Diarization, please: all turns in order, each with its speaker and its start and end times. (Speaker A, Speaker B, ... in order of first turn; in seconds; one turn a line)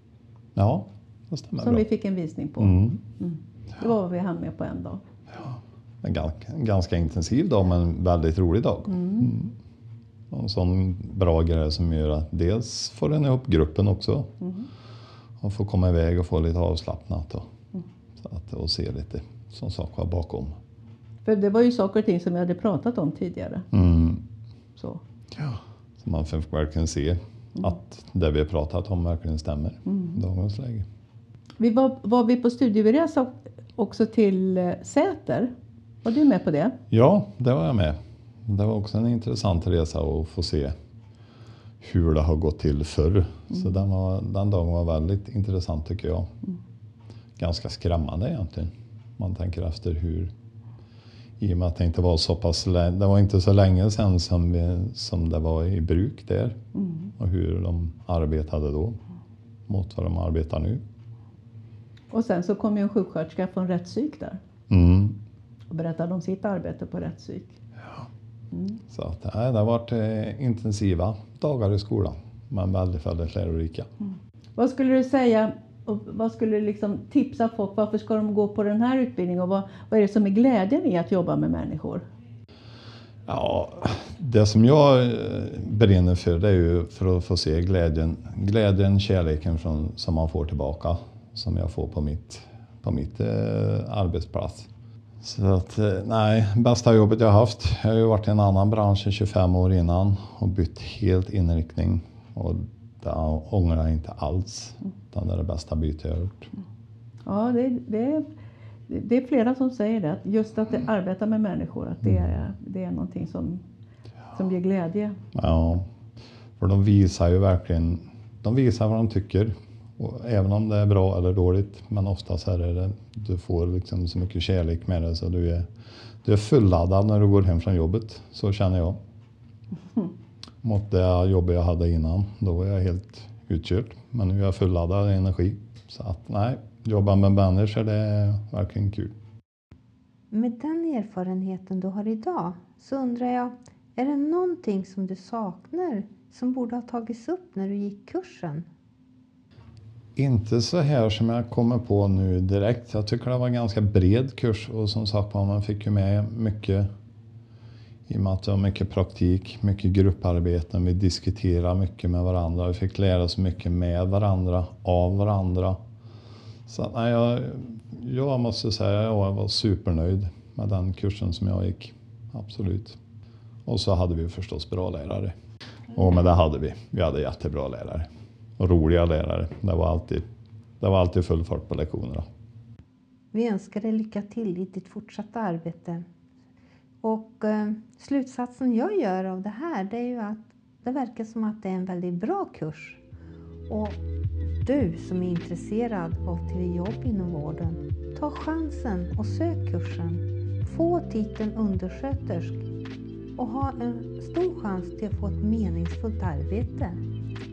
Speaker A: 0.6-1.8
Speaker B: 1.6-5.0
Speaker A: 2.6-3.0
Speaker A: 5.4-9.5
Speaker B: 9.0-9.3
Speaker A: 10.3-14.3
Speaker A: 15.4-17.5
Speaker A: 18.2-20.5
Speaker B: 21.2-23.7
Speaker A: 23.7-24.2
Speaker B: 24.8-25.0
Speaker A: 25.4-30.9
Speaker B: 29.9-30.2
Speaker B: 31.6-35.5
Speaker B: 36.0-36.8
Speaker A: 36.9-40.7
Speaker A: 41.8-46.3
Speaker A: 47.4-50.3
Speaker A: 51.4-56.6
Speaker B: 56.8-57.1
Speaker A: 57.2-59.0
Speaker A: 59.7-60.8
Speaker B: 62.1-64.4
Speaker A: 64.7-65.2
Speaker B: 65.7-67.6
Speaker A: 68.9-73.9
Speaker B: 74.6-82.0
Speaker A: 83.3-94.7
Speaker A: 95.2-106.5
Speaker B: 107.2-108.3
Speaker B: 108.9-113.6
Speaker B: 114.3-115.2
Speaker A: 115.3-115.9
Speaker A: 116.6-125.7
Speaker A: 126.2-129.0
Speaker A: 130.6-139.1
Speaker C: 140.3-148.7
Speaker A: 150.2-156.9
Speaker A: 158.1-165.8
Speaker A: 166.7-173.0
Speaker A: 173.7-175.3
Speaker A: 175.9-178.1
Speaker A: 178.6-180.2
Speaker A: 180.8-182.2
Speaker C: 183.3-186.1
Speaker C: 187.0-193.0
Speaker C: 193.7-194.0
Speaker C: 194.6-202.7
Speaker C: 203.4-207.0